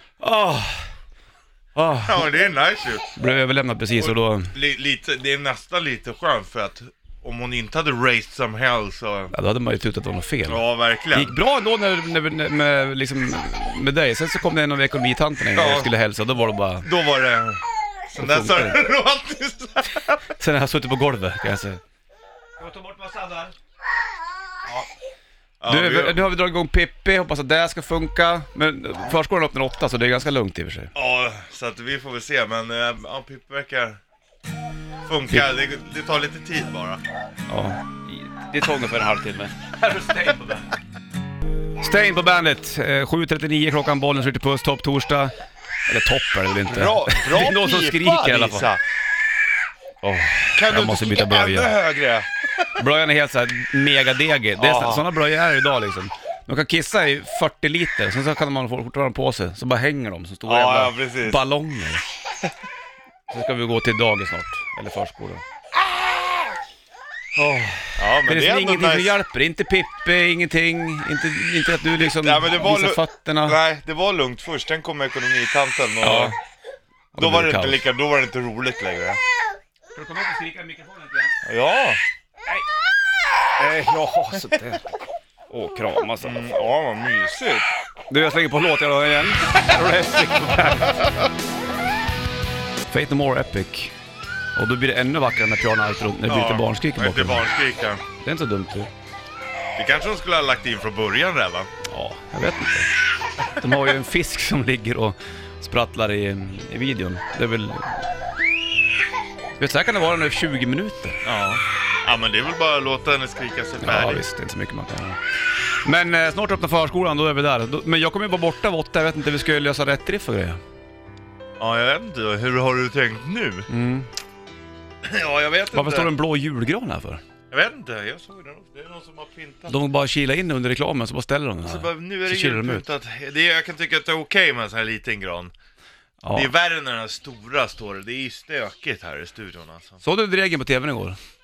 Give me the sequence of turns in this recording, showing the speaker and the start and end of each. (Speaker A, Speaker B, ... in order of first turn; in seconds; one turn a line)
Speaker A: 0.2-0.9
Speaker A: 1.8-2.3
Speaker B: 2.0-3.1
Speaker A: 3.2-4.5
Speaker B: 4.0-9.3
Speaker A: 9.3-16.9
Speaker B: 10.5-11.3
Speaker B: 15.6-15.9
Speaker B: 16.8-17.6
Speaker B: 18.1-20.2
Speaker A: 18.2-18.9
Speaker A: 20.4-21.8
Speaker B: 22.6-23.5
Speaker A: 22.6-23.5
Speaker B: 25.6-26.2
Speaker A: 25.7-30.9
Speaker B: 30.9-34.0
Speaker B: 35.0-37.0
Speaker A: 37.5-40.7
Speaker A: 41.8-45.3
Speaker A: 45.9-48.7
Speaker B: 46.7-48.8
Speaker A: 50.0-51.7
Speaker B: 50.5-52.3
Speaker A: 52.8-62.0
Speaker B: 54.6-55.1
Speaker B: 60.5-61.4
Speaker A: 63.3-65.4
Speaker A: 67.4-73.6
Speaker B: 68.0-69.2
Speaker B: 72.0-76.4
Speaker A: 76.0-76.3
Speaker A: 77.2-77.8
Speaker B: 77.2-79.2
Speaker A: 80.0-81.3
Speaker B: 81.5-82.0
Speaker A: 83.6-84.8
Speaker A: 85.5-86.4
Speaker B: 86.2-87.7
Speaker A: 88.1-91.1
Speaker A: 92.9-93.9
Speaker A: 94.6-97.5
Speaker B: 96.3-98.0
Speaker A: 98.2-98.9
Speaker B: 99.8-101.7
Speaker A: 101.9-102.9
Speaker B: 103.4-103.7
Speaker A: 103.5-108.0
Speaker A: 109.6-111.2
Speaker B: 111.2-114.2
Speaker A: 113.8-115.2
Speaker A: 115.8-120.6
Speaker B: 121.6-123.7
Speaker A: 123.7-124.1
Speaker B: 125.0-126.1
Speaker A: 125.7-127.2
Speaker B: 127.5-129.8
Speaker A: 129.7-132.9
Speaker B: 131.6-135.5
Speaker A: 136.2-136.5
Speaker B: 136.3-140.0
Speaker A: 140.0-141.2